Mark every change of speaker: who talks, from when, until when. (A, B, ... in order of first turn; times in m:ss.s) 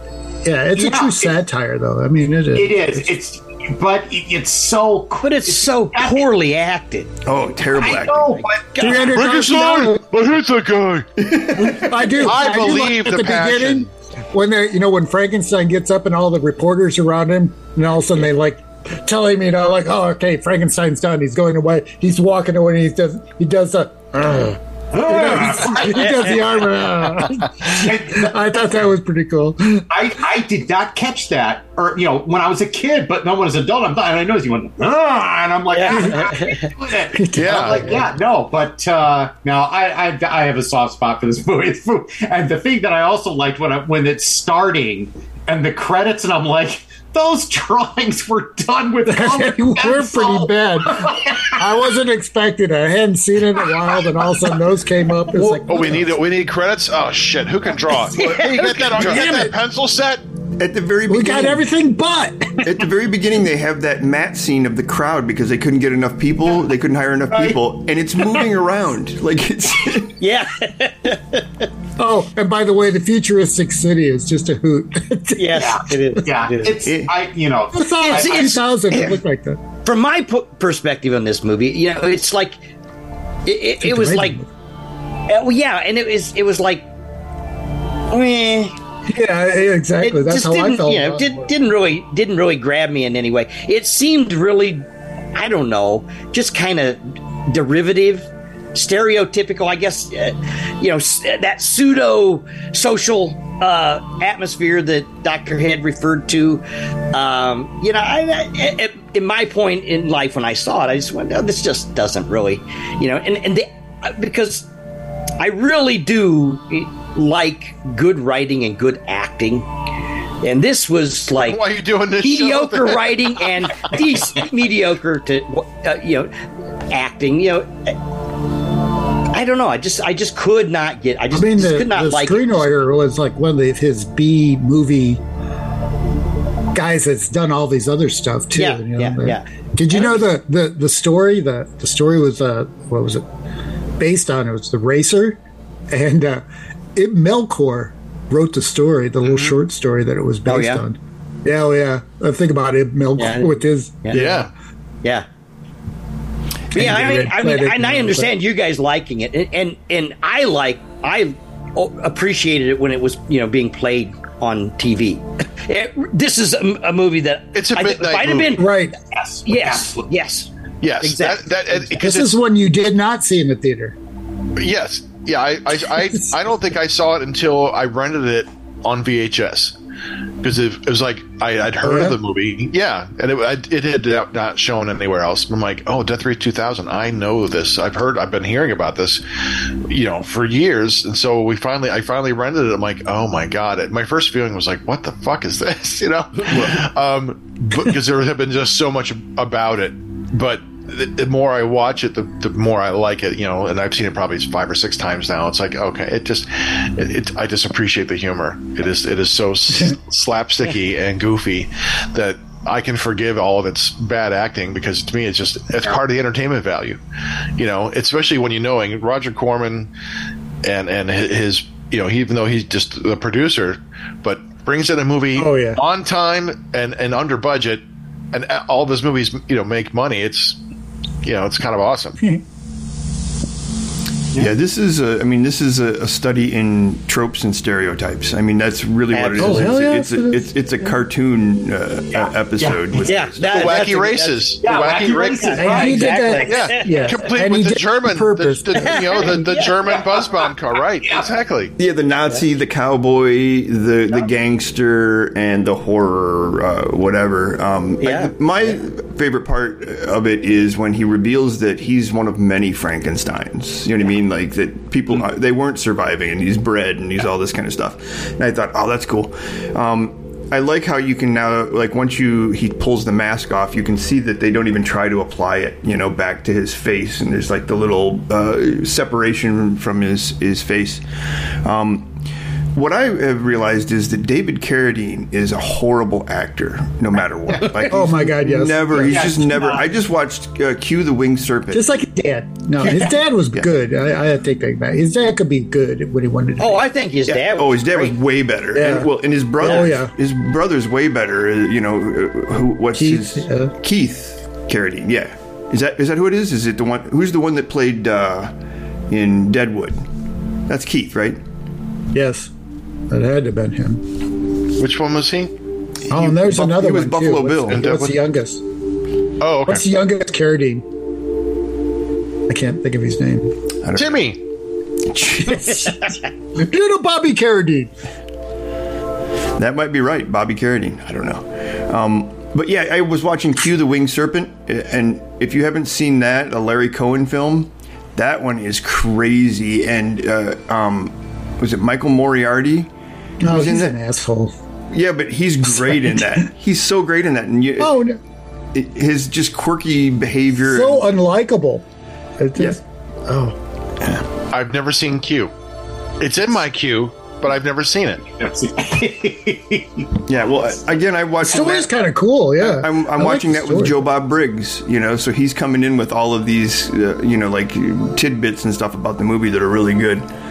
0:00.4-0:03.0 A
0:00.7-0:01.4 B
0:02.5-0:06.3 B
0:05.2-0:07.2 C
0:07.2-0:08.4 D
0:07.8-0:09.0 B
0:08.3-0:09.1 C
0:08.8-0:10.1 A
0:09.0-0:13.9 E
0:11.2-0:11.8 D
0:11.5-0:29.8 A
0:24.9-0:26.3 B
0:27.6-0:28.6 B
0:29.9-0:51.7 B
0:35.7-0:36.7 C
0:37.1-0:38.1 A
0:37.3-0:38.0 E
0:49.0-0:56.1 A
0:55.3-1:00.2 E
0:58.1-0:58.7 C
0:58.3-0:59.6 A
1:00.6-1:01.6 D
1:01.1-1:02.7 A
1:02.6-1:10.2 D
1:07.3-1:07.6 B
1:10.2-1:11.7 C
1:12.0-1:15.6 A
1:15.4-1:16.9 C
1:15.5-1:18.7 B
1:16.8-1:17.1 D
1:17.7-1:19.6 A
1:18.0-1:19.2 C
1:19.8-1:22.6 C
1:23.4-1:24.4 C
1:23.8-1:24.5 A
1:25.3-1:26.8 C
1:28.1-1:28.8 C
1:29.1-1:31.5 A
1:30.0-1:54.7 C
1:55.4-1:59.7 C
2:00.4-2:01.6 C
2:01.4-2:03.4 E
2:02.2-2:06.3 C
2:06.9-2:07.9 C
2:09.3-2:12.7 C
2:11.3-2:15.2 A
2:16.7-2:23.2 A
2:18.5-2:20.2 C
2:24.0-2:25.4 A
2:25.9-2:26.4 A
2:27.0-2:34.5 A
2:30.4-2:30.8 C
2:33.2-2:34.3 C
2:34.1-2:34.5 E
2:36.7-2:38.3 A
2:36.7-2:48.8 C
2:47.5-2:48.6 E
2:48.6-2:49.0 A
2:49.1-2:50.1 B
2:49.4-2:50.5 C
2:50.8-2:52.4 E
2:51.0-2:51.5 C
2:51.9-2:53.9 A
2:54.6-2:59.7 E
3:00.4-3:09.2 E
3:01.8-3:02.2 A
3:09.9-3:37.0 E
3:16.4-3:16.9 D
3:37.6-3:39.9 E
3:40.6-3:50.6 E
3:45.4-3:45.8 A
3:51.2-3:52.2 E
3:54.4-4:03.9 D
3:59.1-3:59.7 C
3:59.4-4:00.5 A
4:02.1-4:03.0 B
4:03.0-4:04.5 C
4:03.4-4:11.7 E
4:04.6-4:06.5 B
4:05.4-4:07.2 C
4:05.6-4:09.3 A
4:08.8-4:09.8 C
4:09.9-4:10.5 B
4:11.0-4:11.3 B
4:11.8-4:41.0 D
4:18.0-4:18.8 C
4:41.6-4:42.1 D
4:42.7-4:51.9 D
4:47.8-4:49.3 A
4:49.0-4:49.8 B
4:51.7-4:56.8 A
4:56.6-4:58.1 C
4:57.3-5:08.5 D
4:58.7-5:00.1 A
5:03.0-5:03.7 A
5:09.1-5:10.0 D
5:10.7-5:11.4 D
5:12.1-5:12.5 A
5:13.1-5:14.0 A
5:14.8-5:15.5 E
5:16.1-5:17.8 D
5:16.1-5:18.6 A
5:17.7-5:18.2 E
5:19.4-5:19.8 E
5:19.6-5:20.8 A
5:22.5-5:23.5 A
5:23.8-5:24.3 D
5:23.9-5:24.4 E
5:25.0-5:25.9 D
5:25.4-5:27.9 A
5:29.6-5:42.9 D
5:43.4-5:44.5 A
5:43.4-5:44.0 D
5:44.9-5:48.0 D
5:45.8-5:46.3 A
5:47.8-5:48.2 A
5:48.7-5:51.1 D
5:50.6-5:51.8 A
5:52.4-5:53.6 A
5:54.5-5:55.5 E
5:56.2-5:58.2 E
5:58.4-6:00.2 B
6:00.3-6:01.9 D
6:01.4-6:04.0 A
6:02.6-6:10.3 D